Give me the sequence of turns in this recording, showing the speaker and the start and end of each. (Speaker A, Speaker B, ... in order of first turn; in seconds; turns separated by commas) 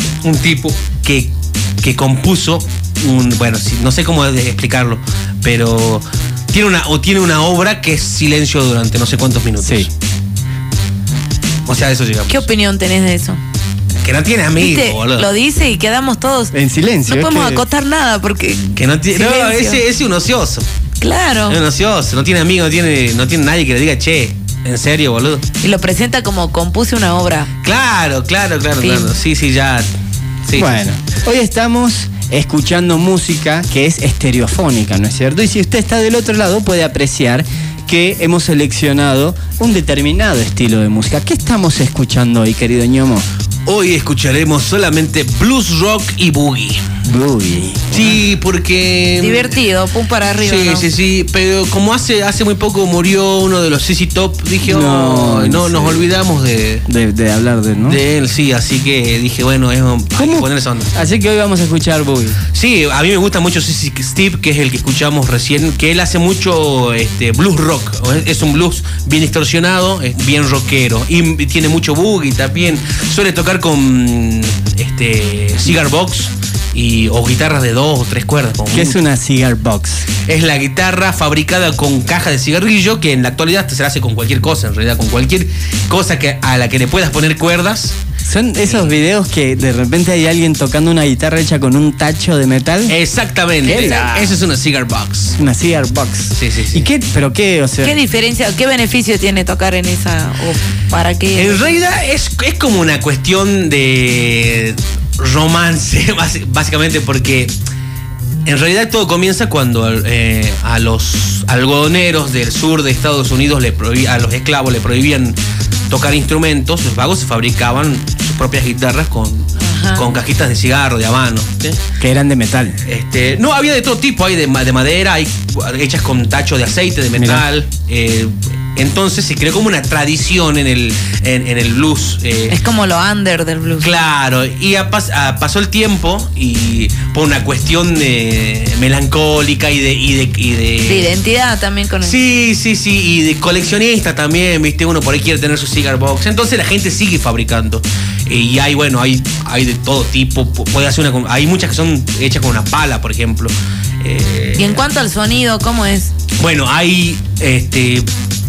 Speaker A: 0.2-9.9, Speaker B: 9.6-9.9, Speaker A: 11.7-12.4, Speaker C: 12.3-13.4, Speaker A: 14.0-15.3, Speaker C: 14.6-16.5, Speaker B: 16.5-17.6, Speaker C: 17.0-19.8, Speaker A: 18.8-20.6, Speaker C: 21.0-21.6, Speaker A: 21.5-25.4, Speaker C: 25.6-27.5, Speaker A: 27.6-29.9, Speaker C: 28.8-29.1, Speaker A: 30.4-30.8, Speaker B: 30.5-43.2, Speaker A: 43.6-46.8, Speaker B: 47.0-48.2, Speaker A: 47.9-49.6, Speaker C: 49.1-50.9, Speaker A: 50.4-56.8, Speaker B: 54.6-56.1, Speaker B: 56.9-58.0, Speaker A: 57.8-60.9, Speaker B: 60.1-62.4, Speaker A: 62.5-79.0, Speaker B: 78.7-80.1, Speaker A: 80.2-88.0, Speaker B: 88.2-92.9, Speaker A: 88.6-88.9, Speaker A: 92.9-95.4, Speaker B: 93.6-94.4, Speaker C: 93.7-94.1, Speaker B: 95.4-98.0, Speaker A: 96.3-96.9, Speaker C: 97.8-101.8, Speaker A: 101.3-107.5, Speaker A: 108.5-115.4, Speaker A: 115.9-121.8, Speaker C: 119.6-120.1, Speaker B: 122.0-122.8, Speaker A: 122.8-132.6, Speaker B: 127.2-127.4, Speaker C: 132.5-133.9, Speaker A: 133.8-141.1, Speaker C: 140.8-142.2, Speaker A: 142.0-154.8, Speaker C: 154.6-156.1, Speaker A: 156.4-158.1